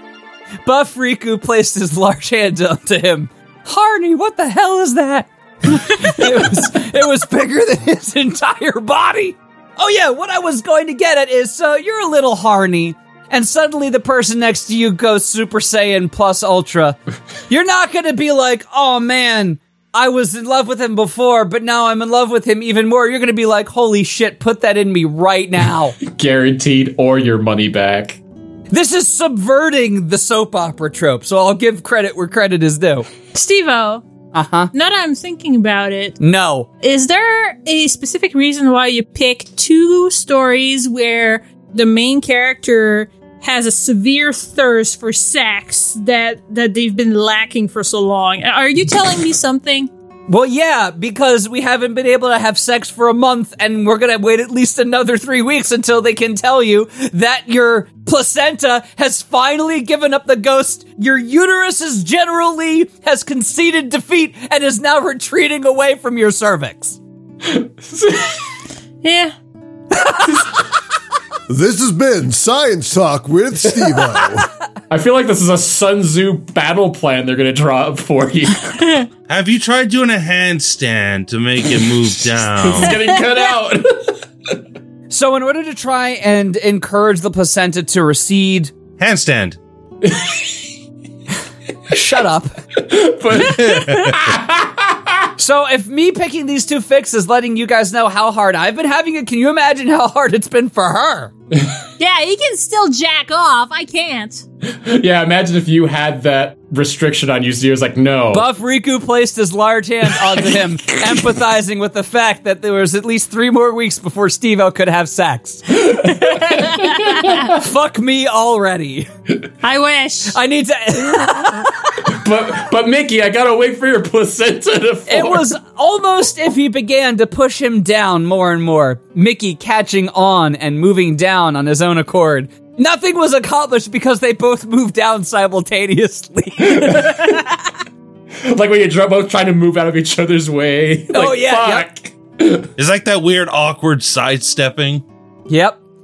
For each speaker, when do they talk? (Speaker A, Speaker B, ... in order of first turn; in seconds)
Speaker A: 0.6-17.0, 17.5-25.9, 28.7-33.1, 34.3-34.7, 36.2-36.7, 50.3-67.0, 85.1-88.7, 91.9-92.5, 95.4-101.3, 108.3-115.8, 117.4-119.1, 120.3-121.9, 125.1-137.3, 141.1-141.9, 145.5-145.8
Speaker B: 26.0-28.2, 67.4-68.4, 74.9-78.8, 82.5-84.1, 90.0-90.5, 92.8-95.0, 104.8-108.5, 116.0-117.5, 122.1-125.5, 136.7-137.4, 138.4-142.7
Speaker C: 33.3-34.0, 34.7-36.2, 36.8-49.9, 69.0-69.3, 93.6-94.1, 102.0-104.4, 116.3-117.4, 119.6-120.3
Speaker D: 71.5-74.5
Speaker E: 79.3-83.0, 89.0-89.6, 142.8-145.0